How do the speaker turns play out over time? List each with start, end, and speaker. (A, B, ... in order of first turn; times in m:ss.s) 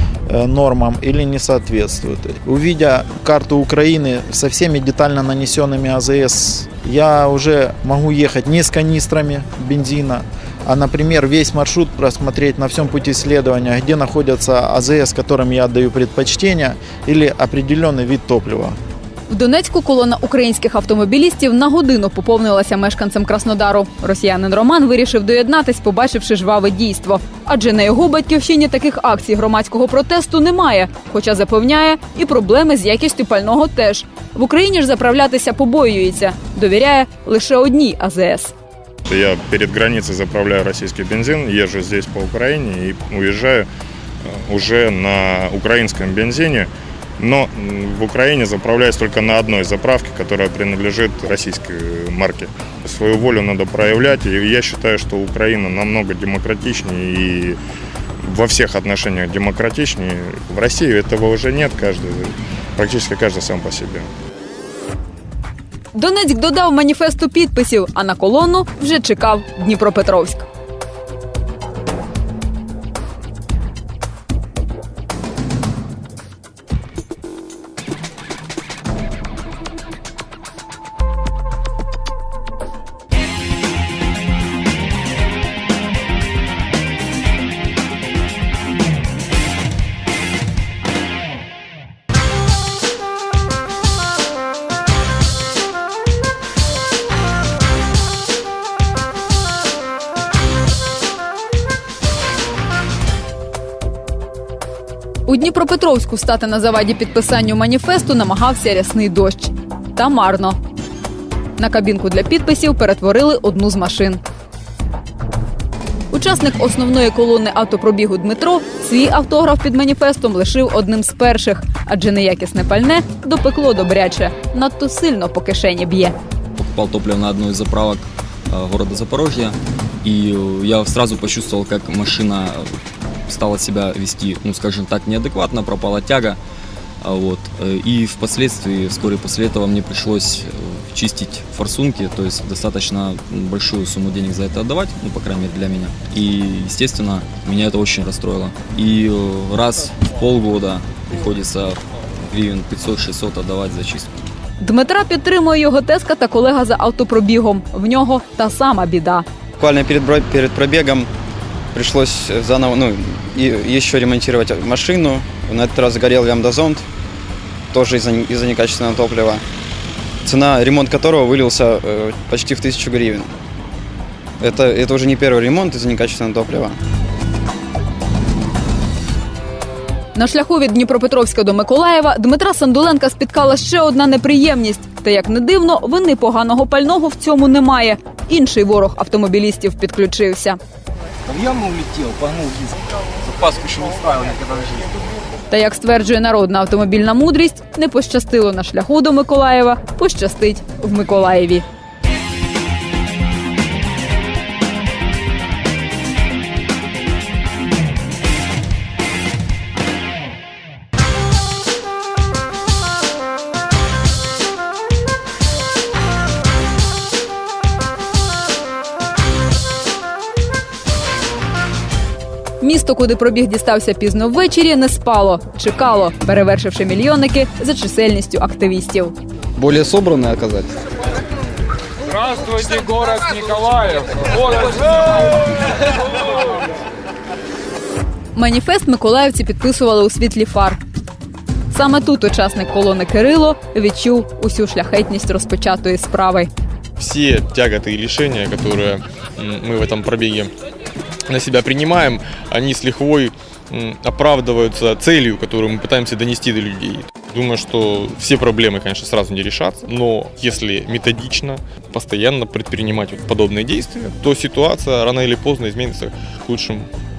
0:00.3-0:18.8 A
0:19.3-0:38.5 B
0:39.1-0:43.7 C
0:44.2-0:57.6 C
0:58.2-1:04.1 C
1:05.9-1:10.5 B
1:45.2-1:50.6 B
1:51.6-1:54.2 B
1:56.1-2:06.1 B
2:06.6-2:12.7 D
2:13.3-2:16.4 D
2:17.0-2:31.8 D
2:32.3-2:34.1 D
2:34.6-2:39.2 B
2:39.6-2:41.1 E
2:41.7-2:46.8 E
2:47.7-2:49.4 E
2:50.2-2:53.3 E
2:54.4-2:56.8 E
3:00.1-3:10.6 B
3:11.2-3:15.0 F
3:15.5-3:21.6 B
3:42.6-3:49.1 B
3:49.6-3:50.7 E
3:58.3-4:00.8 B
4:01.7-4:06.5 B
4:07.0-4:10.5 G
4:11.3-4:26.9 G